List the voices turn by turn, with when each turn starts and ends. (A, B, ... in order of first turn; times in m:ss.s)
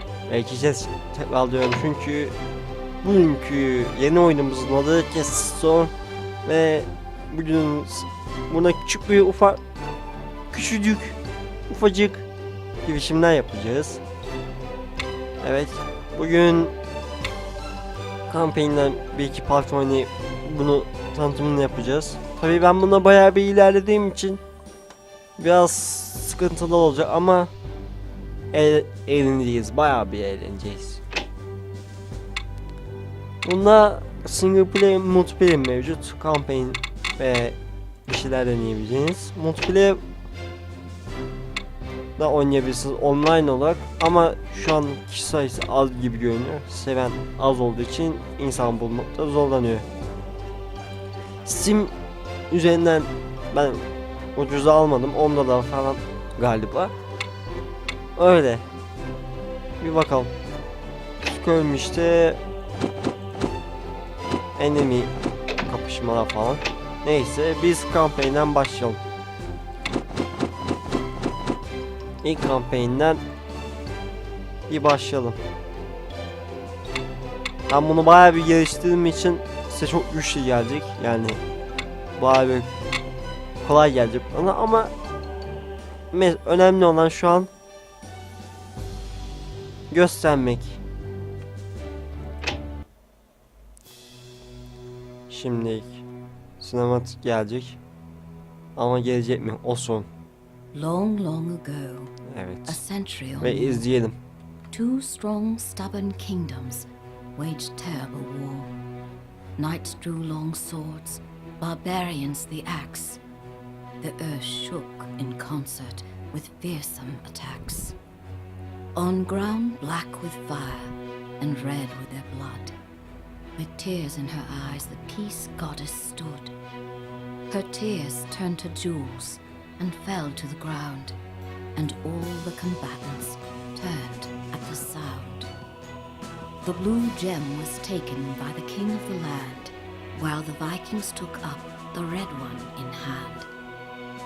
0:00.3-0:02.4 A
0:03.0-0:05.9 A
0:06.4-0:09.6 A
0:10.5-0:11.2 A
0:11.7-0:12.2 A
0:12.8-0:14.0 A
0:15.4-0:16.7 A
0:18.3-0:24.4 A
0:25.4-0:27.5 A
0:28.5-0:31.0 A
0:33.4-0:40.0 A
0:42.2-0:49.9 A
0:51.4-0:51.9 A
0:52.5-0:56.9 A
0:58.2-0:58.6 A
0:59.8-1:00.3 A
1:01.2-1:02.4 A
1:04.6-1:05.1 A
1:05.6-1:09.0 A
1:12.2-1:13.2 A
1:14.7-1:15.4 A
1:17.7-1:21.4 A
1:22.2-1:22.7 A
1:23.6-1:24.9 A
1:26.1-1:27.5 A
1:29.9-1:30.8 A
1:35.3-1:36.0 A
1:36.6-1:37.8 A
1:38.8-1:40.1 A
1:40.7-1:42.1 B
1:42.2-1:42.8 A
1:42.6-1:43.9 B
1:43.4-1:44.2 A
1:44.7-1:48.7 B
1:49.6-1:53.2 B
1:54.0-1:58.0 B
1:59.0-2:02.8 B
2:03.6-2:06.5 B
2:07.5-2:11.2 B
2:11.8-2:15.5 B
2:16.6-2:23.5 B